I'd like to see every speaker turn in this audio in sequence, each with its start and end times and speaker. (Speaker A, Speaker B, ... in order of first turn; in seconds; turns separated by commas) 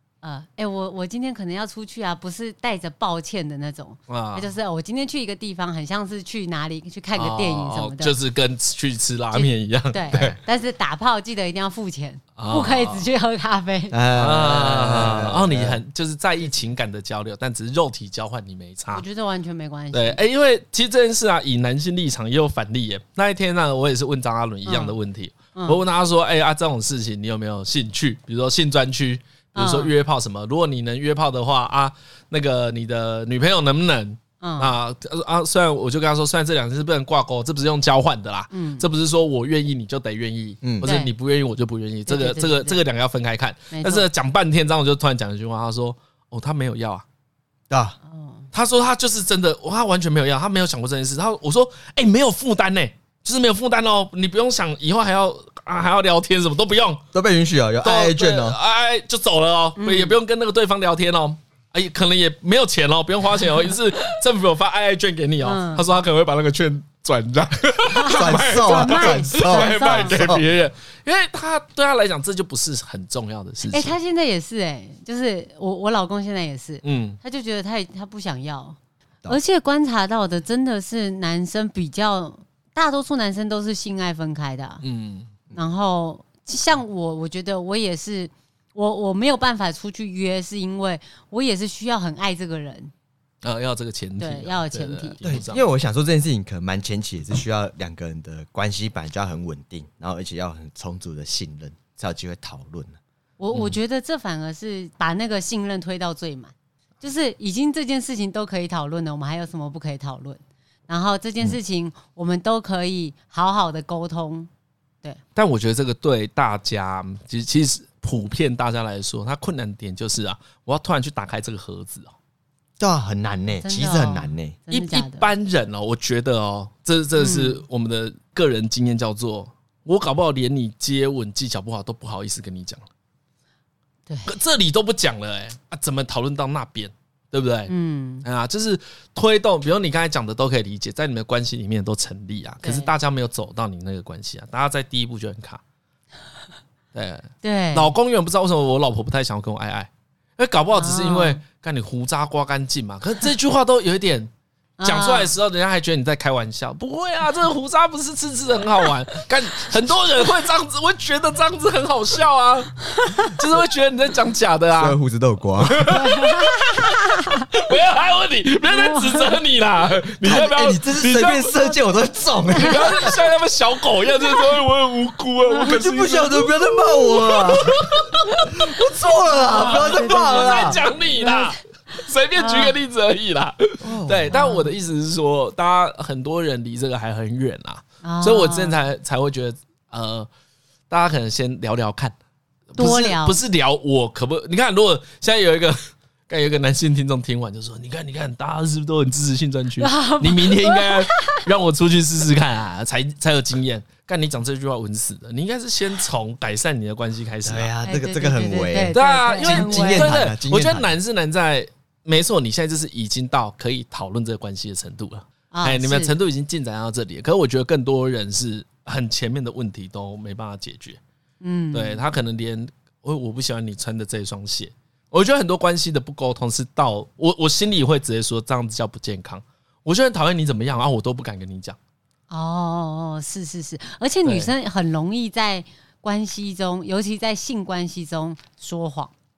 Speaker A: 0.2-8.1, Speaker B: 4.1-4.5, Speaker B: 7.2-10.4, Speaker A: 9.3-14.0, Speaker B: 12.4-13.1, Speaker C: 13.9-15.8, Speaker B: 14.1-19.0, Speaker A: 18.9-20.2, Speaker B: 19.9-47.0, Speaker A: 24.6-24.9, Speaker A: 25.5-25.8, Speaker A: 29.5-29.9, Speaker A: 34.4-34.7, Speaker A: 38.5-38.8, Speaker A: 40.8-41.1, Speaker A: 42.1-42.8, Speaker A: 43.7-44.0, Speaker C: 47.7-48.0, Speaker A: 48.1-48.5, Speaker B: 48.5-57.0, Speaker C: 57.1-58.6, Speaker B: 57.8-74.0, Speaker A: 59.8-60.1, Speaker A: 65.4-65.8, Speaker A: 67.9-70.2, Speaker C: 68.0-70.4, Speaker A: 73.7-84.8, Speaker B: 76.8-77.2, Speaker B: 84.8-85.3, Speaker A: 85.5-92.9, Speaker B: 93.4-95.6, Speaker A: 94.2-95.1, Speaker C: 95.2-103.0, Speaker A: 103.4-114.5, Speaker B: 115.3-122.1, Speaker C: 122.8-124.6, Speaker A: 123.6-125.3, Speaker B: 124.7-132.8, Speaker A: 127.2-127.6, Speaker B: 134.2-137.7, Speaker A: 137.7-138.2, Speaker B: 138.2-145.6, Speaker A: 142.6-142.9, Speaker B: 146.9-154.3, Speaker A: 147.4-147.9, Speaker A: 150.7-151.4, Speaker A: 154.8-155.3, Speaker B: 154.8-165.0, Speaker A: 162.9-163.3, Speaker C: 164.8-165.9, Speaker B: 165.6-171.7, Speaker A: 165.9-167.5, Speaker A: 168.7-169.3, Speaker C: 170.2-173.1, Speaker B: 172.6-176.5, Speaker C: 175.6-180.8, Speaker B: 177.2-178.4, Speaker A: 179.2-181.6, Speaker B: 179.5-190.3, Speaker A: 182.4-182.7, Speaker C: 183.8-184.3, Speaker A: 184.3-184.7, Speaker A: 188.0-188.8, Speaker B: 190.9-192.1, Speaker B: 192.7-207.7, Speaker A: 192.8-193.4, Speaker A: 199.8-201.4, Speaker C: 207.4-210.9, Speaker A: 207.8-210.1, Speaker B: 208.9-221.0, Speaker A: 215.5-216.1, Speaker A: 221.4-222.0, Speaker B: 221.7-231.8, Speaker A: 232.3-239.1, Speaker B: 234.2-234.5